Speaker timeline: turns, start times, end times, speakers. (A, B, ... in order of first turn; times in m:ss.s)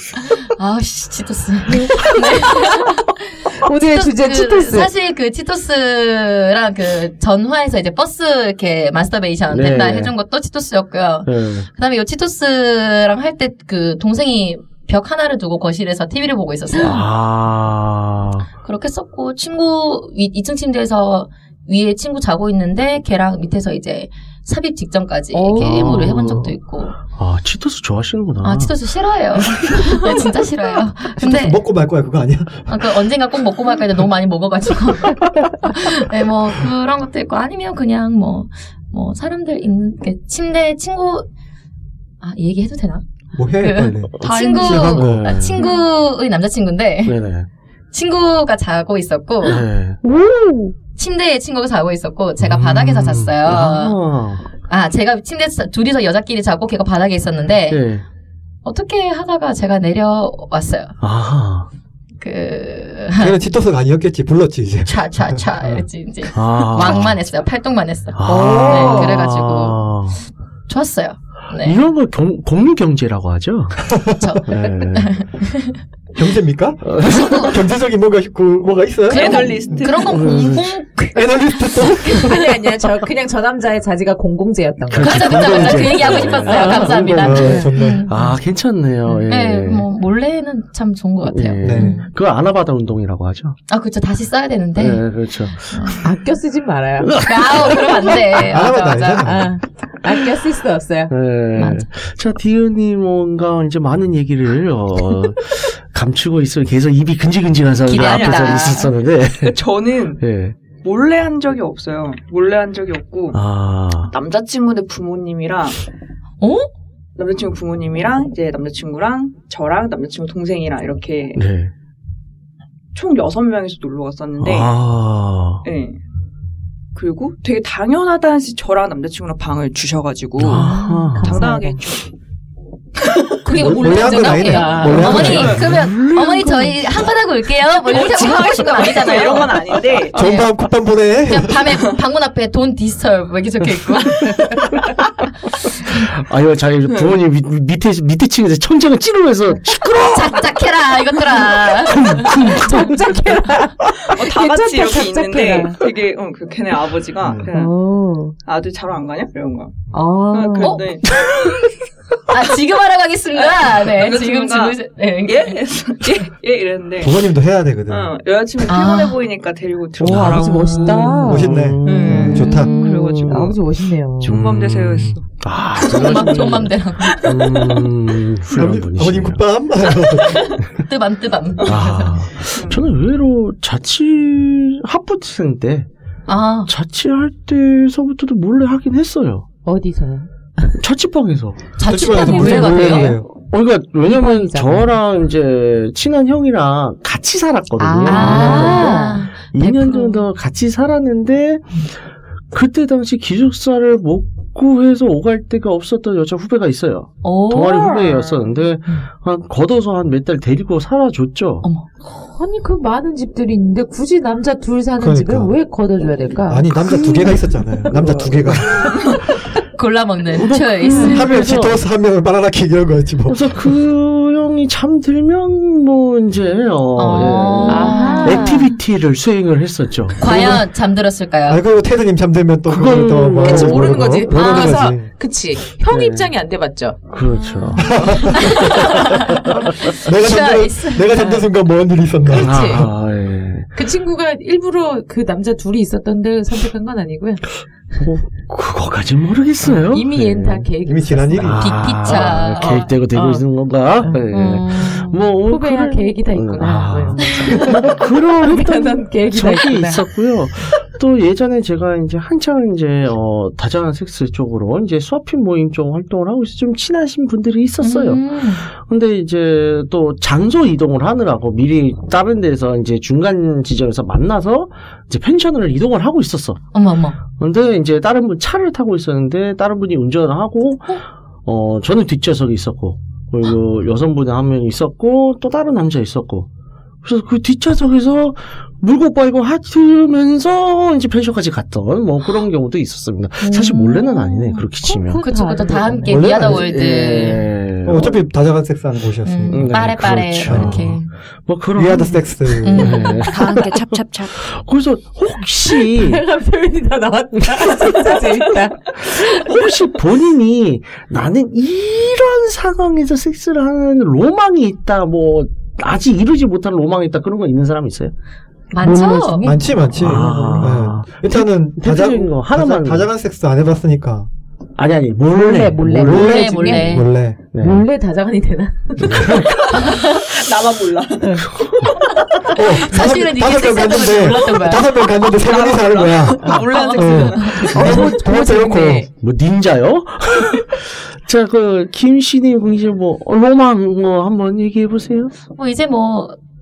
0:00.2-0:17.0 A
0:01.7-0:02.9 B
0:03.6-0:04.9 B
0:09.5-0:10.1 C
0:11.2-0:11.7 C
0:16.8-0:18.5 C
0:18.6-0:27.0 A
0:25.3-0:26.3 B
0:25.6-0:26.5 C
0:27.1-0:28.7 C
0:28.4-0:31.6 A
0:31.2-0:32.9 D
0:32.7-0:41.3 A
0:42.2-0:43.0 A
0:43.3-0:45.3 D
0:43.6-0:47.2 A
0:44.2-0:45.6 C
0:47.0-0:47.5 C
0:47.9-0:49.6 A
0:49.4-0:50.0 C
0:50.0-0:50.7 B
0:51.0-0:54.0 A
0:52.4-0:54.5 C
0:54.7-0:57.8 A
0:57.7-0:58.0 C
0:58.6-1:01.0 A
1:01.0-1:01.7 C
1:02.2-1:03.4 A
1:03.2-1:05.8 D
1:04.8-1:09.9 A
1:06.3-1:07.2 C
1:08.1-1:10.2 C
1:08.3-1:08.6 D
1:08.3-1:09.1 B
1:10.7-1:11.8 A
1:11.6-1:15.2 C
1:14.2-1:15.8 A
1:16.1-1:19.8 D
1:16.8-1:17.5 C
1:17.1-1:17.5 A
1:19.1-1:20.3 E
1:19.1-1:22.3 A
1:20.0-1:20.7 C
1:21.1-1:22.4 D
1:22.2-1:28.3 B
1:24.9-1:29.9 C
1:24.9-1:28.3 A
1:27.0-1:28.1 D
1:29.3-1:32.0 A
1:31.2-1:33.6 C
1:31.6-1:31.9 D
1:31.8-1:32.0 B
1:33.7-1:36.0 A
1:34.8-1:36.0 C
1:36.0-1:37.1 B
1:37.0-1:38.4 C
1:37.2-1:39.4 A
1:38.4-1:39.5 D
1:39.2-1:41.1 B
1:41.1-1:49.6 C
1:41.6-1:41.8 A
1:47.9-1:48.9 A
1:47.9-1:53.4 E
1:50.2-1:50.6 C
1:53.3-1:54.1 C
1:54.0-1:55.8 E
1:56.4-1:56.7 A
1:57.2-2:01.4 E
2:01.4-2:01.7 C
2:02.9-2:04.7 E
2:04.4-2:05.6 C
2:05.6-2:06.0 E
2:06.9-2:12.1 E
2:10.4-2:11.5 C
2:10.4-2:11.8 B
2:13.0-2:13.3 E
2:13.4-2:15.5 B
2:13.5-2:20.5 A
2:13.5-2:15.7 D
2:14.8-2:15.7 E
2:14.9-2:17.1 C
2:17.8-2:20.4 E
2:20.1-2:21.6 D
2:21.3-2:24.5 A
2:25.9-2:30.5 C
2:26.9-2:27.1 E
2:30.1-2:32.2 A
2:31.8-2:33.0 C
2:32.2-2:35.8 B
2:34.0-2:37.7 E
2:37.2-2:37.5 D
2:37.5-2:38.4 B
2:38.4-2:39.8 E
2:39.9-2:40.8 B
2:40.3-2:41.6 E
2:40.6-2:40.8 A
2:42.3-2:46.1 A
2:43.4-2:47.2 E
2:47.0-2:48.1 D
2:47.9-2:51.3 E
2:48.6-2:49.2 A
2:50.0-2:54.4 B
2:50.0-2:53.4 C
2:51.2-2:52.7 D
2:51.8-2:53.6 E
2:52.3-2:53.2 A
2:54.2-2:55.3 E
2:54.2-2:59.4 C
2:55.8-2:56.5 E
2:55.8-2:57.4 A
2:58.5-3:00.6 D
3:00.0-3:00.6 E
3:00.8-3:02.2 A
3:01.6-3:05.9 C
3:02.5-3:02.9 E
3:06.3-3:06.7 A
3:06.7-3:09.4 C
3:09.6-3:10.8 B
3:10.8-3:21.8 C
3:11.8-3:13.2 A
3:11.8-3:13.2 D
3:12.0-3:13.2 B
3:14.0-3:15.0 B
3:17.8-3:20.2 A
3:18.0-3:19.3 B
3:22.5-3:31.6 C
3:27.2-3:28.2 A
3:28.0-3:28.5 E
3:32.2-3:37.4 B
3:35.0-3:35.6 D
3:36.5-3:38.9 D
3:36.8-3:39.0 C
3:38.9-3:39.2 E
3:39.4-3:41.4 A
3:40.3-3:41.8 C
3:41.0-3:43.5 D
3:43.3-3:50.6 C
3:46.9-3:48.7 A
3:47.6-3:48.7 B
3:50.2-3:51.6 A
3:50.3-3:50.6 D
3:51.5-3:55.1 D
3:52.7-3:54.5 C
3:53.4-3:58.9 B
3:54.3-3:54.8 A
3:55.9-3:56.3 C
3:57.1-3:59.9 C
3:57.5-4:01.5 A
3:57.6-3:58.0 E
3:57.8-3:58.9 D
4:00.0-4:02.9 D
4:02.3-4:02.9 B
4:02.3-4:03.7 C
4:03.7-4:07.4 B
4:08.0-4:10.7 C
4:09.6-4:11.6 B
4:10.8-4:12.2 D
4:11.4-4:36.6 C
4:11.6-4:12.9 A
4:12.6-4:13.4 B
4:14.3-4:15.2 A
4:15.4-4:20.0 B
4:27.8-4:28.7 A
4:36.7-4:37.2 A
4:37.4-4:40.9 C
4:41.4-4:46.5 C
4:47.0-4:55.2 C
4:53.4-4:54.7 A
4:54.8-4:56.5 B
4:55.2-4:57.5 A
4:56.1-4:58.1 C
4:57.8-5:00.8 D
4:59.2-5:01.1 A
4:59.5-5:03.8 C
5:01.7-5:03.1 D
5:02.6-5:03.3 A
5:03.2-5:04.4 E
5:04.4-5:06.2 C
5:05.7-5:09.2 B
5:09.0-5:18.1 C
5:18.7-5:19.4 A
5:18.7-5:20.8 B
5:19.4-5:24.3 D
5:20.0-5:23.1 C
5:24.8-5:26.7 C
5:25.3-5:30.0 B
5:26.0-5:27.4 D
5:26.1-5:27.1 A
5:27.5-5:27.8 C
5:29.0-5:29.5 D
5:29.0-5:29.4 C
5:29.5-5:32.5 E
5:31.2-5:31.5 B
5:32.5-5:39.1 D
5:32.7-5:35.2 A
5:35.1-5:37.9 E
5:36.4-5:39.1 B
5:36.8-5:37.9 A
5:37.7-5:38.1 C
5:39.2-5:45.3 C
5:45.5-5:46.4 A